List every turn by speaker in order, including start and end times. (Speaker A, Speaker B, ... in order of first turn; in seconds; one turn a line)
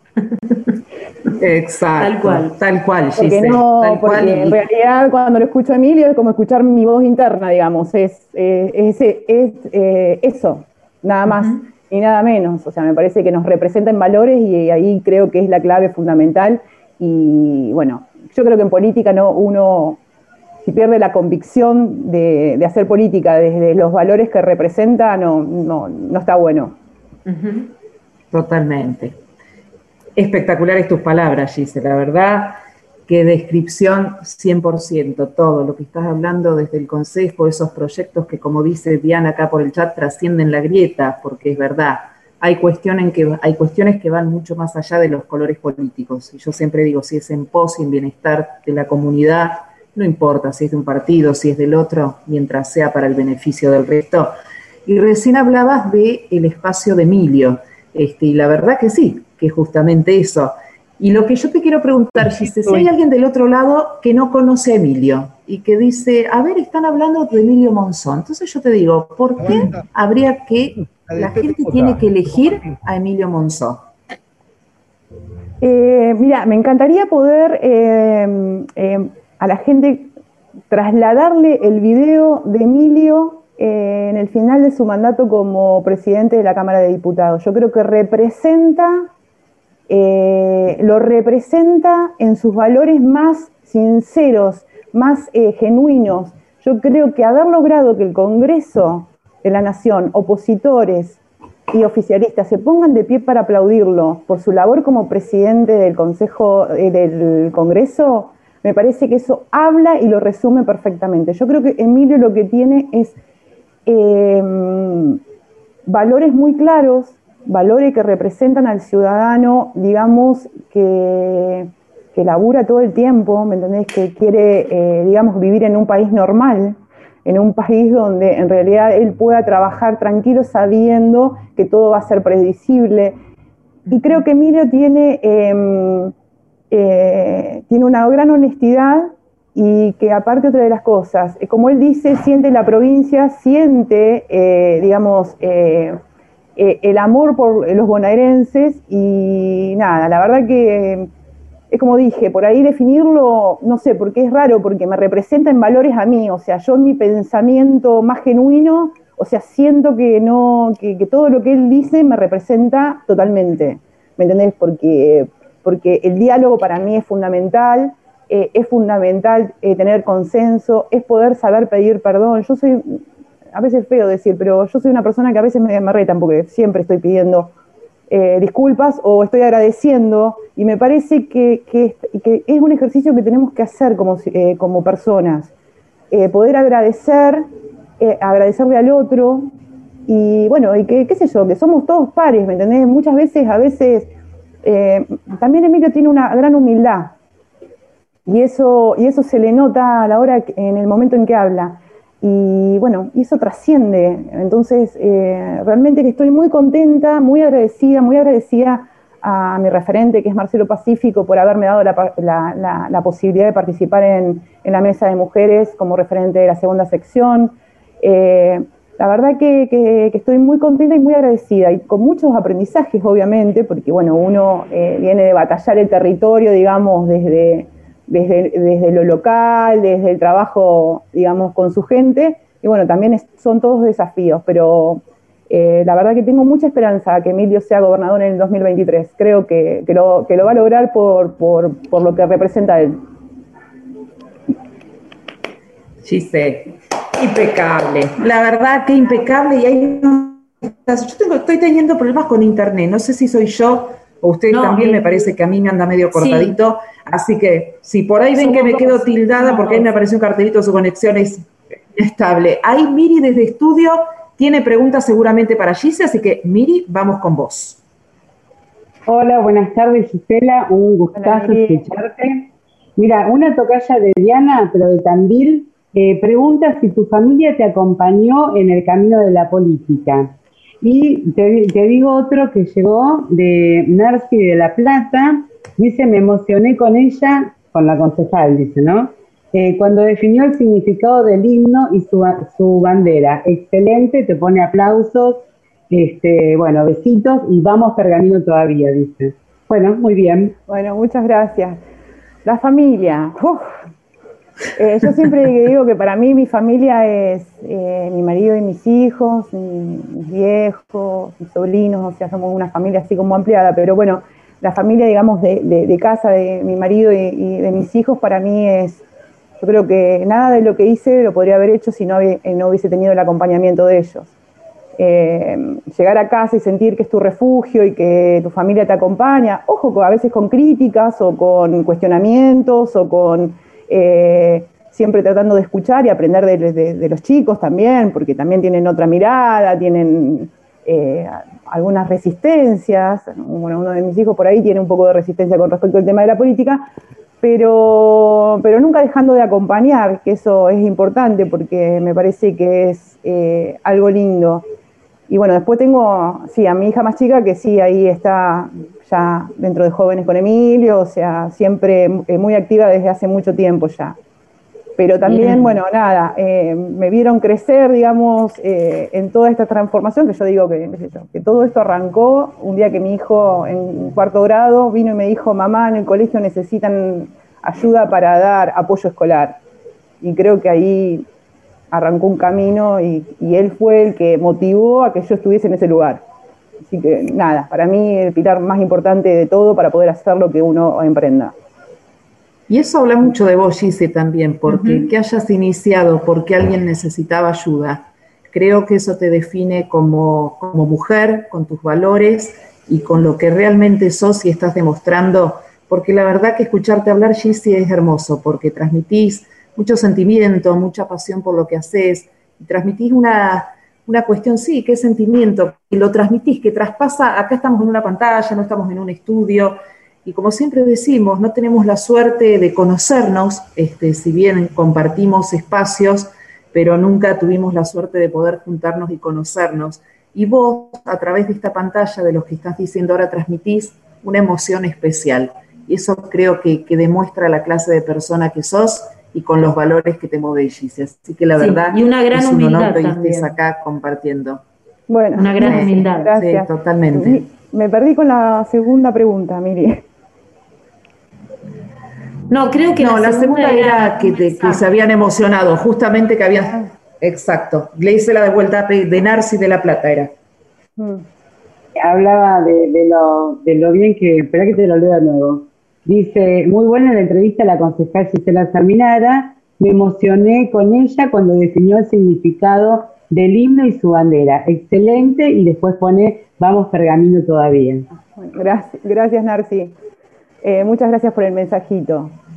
Speaker A: 1.4-4.6
Speaker B: 2.0-2.5
Speaker C: 3.1-20.0
Speaker B: 11.2-11.6
Speaker C: 20.6-26.8
Speaker B: 27.2-27.7
Speaker A: 28.3-29.2
Speaker A: 30.1-54.3
Speaker A: 54.9-73.8
Speaker C: 75.6-80.1
Speaker C: 80.7-89.1
Speaker C: 89.9-101.2
Speaker C: 101.7-113.2
Speaker C: 113.8-115.2
Speaker C: 115.8-133.2
Speaker B: 133.9-134.2
Speaker C: 133.9-136.1
Speaker C: 136.7-146.0
Speaker C: 146.6-151.1
Speaker C: 151.7-173.0
Speaker C: 173.5-177.5
Speaker C: 178.1-185.5
Speaker C: 186.1-187.4
Speaker C: 188.0-189.5
Speaker C: 190.1-194.1
Speaker C: 194.6-197.2
Speaker C: 198.2-243.0
Speaker A: 246.0-267.8
Speaker B: 254.5-255.3
Speaker B: 256.1-256.6
Speaker B: 258.4-259.9
Speaker D: 269.1-300.5
Speaker C: 271.1-271.9
Speaker C: 300.7-301.8
Speaker C: 302.4-303.6
Speaker C: 304.8-319.0
Speaker C: 319.6-324.3
Speaker C: 325.0-346.9
Speaker C: 347.4-354.6
Speaker C: 355.3-364.2
Speaker C: 365.0-379.6
Speaker B: 365.2-365.8
Speaker C: 380.2-381.2
Speaker C: 381.9-386.2
Speaker C: 386.8-391.6
Speaker A: 392.7-444.6
Speaker B: 394.7-395.1
Speaker B: 441.6-443.5
Speaker C: 445.1-450.0
Speaker B: 445.3-446.3
Speaker A: 445.6-447.5
Speaker B: 452.5-454.8
Speaker A: 453.0-460.3
Speaker C: 461.0-461.3
Speaker D: 462.0-478.1
Speaker C: 478.2-479.9
Speaker C: 480.6-482.3